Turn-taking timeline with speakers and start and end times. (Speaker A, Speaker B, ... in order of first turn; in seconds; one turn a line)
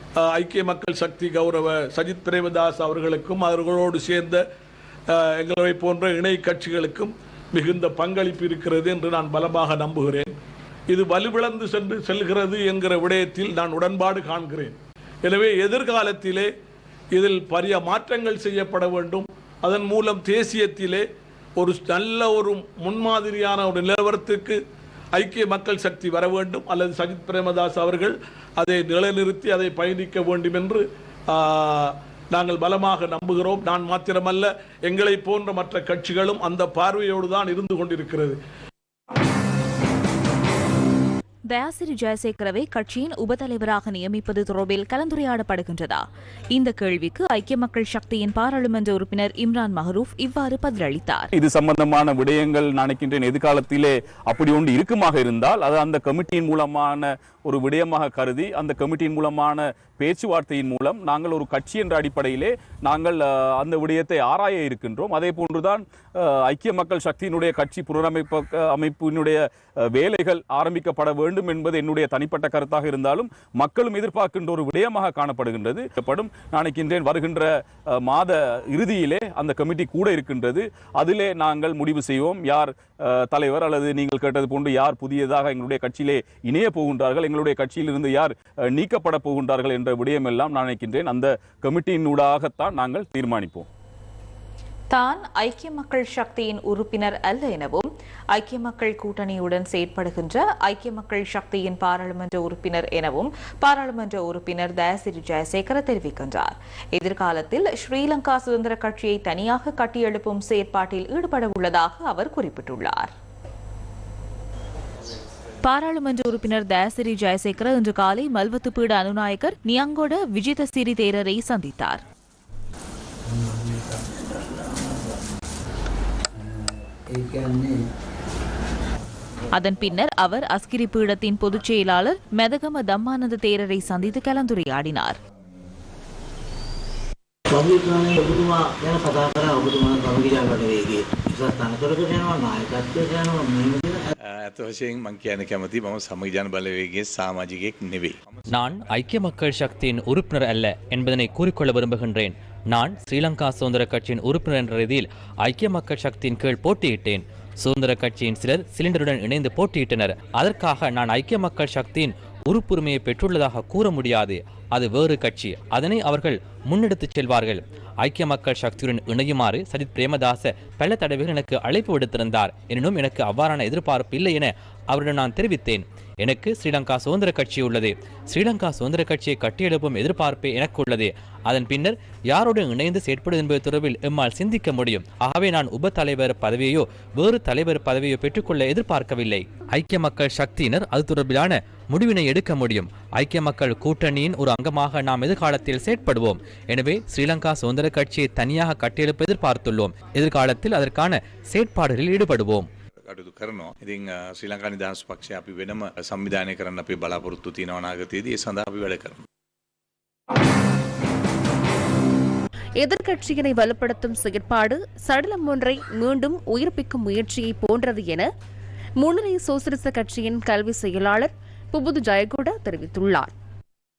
Speaker A: 0.2-4.4
Speaker A: 5.1-10.3
Speaker A: 10.9-16.5
Speaker A: 17.1-21.0
Speaker A: 21.6-24.6
Speaker A: 25.1-38.4
Speaker B: 41.5-51.3
Speaker C: 51.4-69.4
Speaker C: 69.9-93.7
Speaker B: 94.9-113.1
Speaker B: 115.6-122.0
Speaker B: 129.5-135.2
Speaker D: 137.5-144.1
Speaker E: 144.3-148.4
Speaker F: 148.5-202.7
Speaker E: 203.0-209.2
Speaker G: 212.8-218.3
Speaker G: 219.0-223.3